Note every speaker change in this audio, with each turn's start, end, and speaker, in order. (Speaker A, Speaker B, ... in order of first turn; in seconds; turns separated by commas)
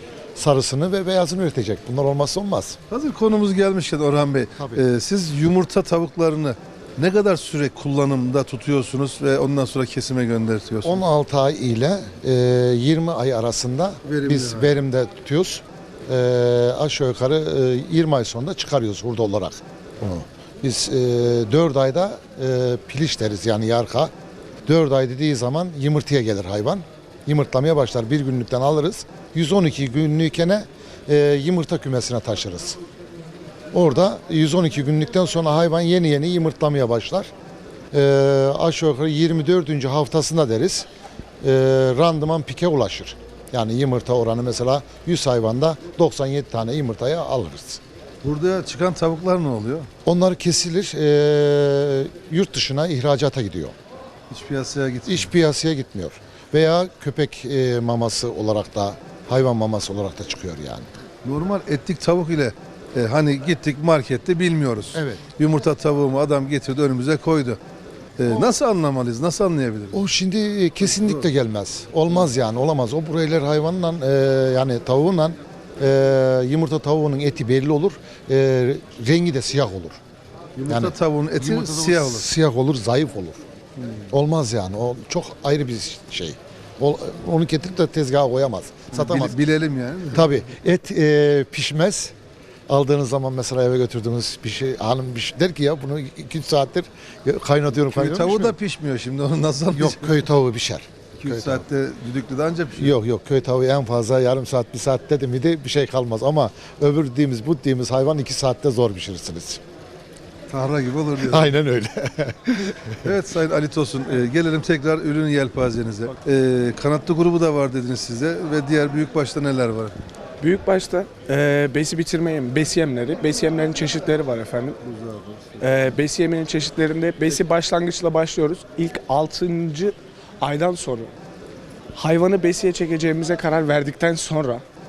Speaker A: 0.4-2.8, Speaker B: 2.9-11.0, Speaker A: 4.6-4.8, Speaker A: 10.8-24.1, Speaker B: 14.0-14.8, Speaker A: 24.6-32.8, Speaker A: 33.7-37.3, Speaker A: 37.9-40.9, Speaker A: 41.4-47.8, Speaker B: 48.2-49.9, Speaker A: 50.0-53.8, Speaker B: 54.3-55.3, Speaker A: 55.1-60.9, Speaker B: 61.2-67.6, Speaker A: 64.9-65.2, Speaker B: 68.2-70.0, Speaker A: 69.9-80.0, Speaker B: 70.8-71.3, Speaker B: 80.6-82.3, Speaker A: 80.7-83.4, Speaker B: 83.8-84.1, Speaker A: 84.1-89.4, Speaker B: 88.9-90.3, Speaker A: 90.1-92.1, Speaker A: 92.7-98.6, Speaker B: 97.8-100.2, Speaker A: 99.7-101.6, Speaker B: 101.2-103.0, Speaker A: 102.8-109.6, Speaker B: 110.5-111.5, Speaker A: 111.2-113.1, Speaker B: 113.0-120.0, Speaker C: 120.4-124.8, Speaker B: 124.8-126.0, Speaker C: 125.6-131.1, Speaker C: 131.9-134.6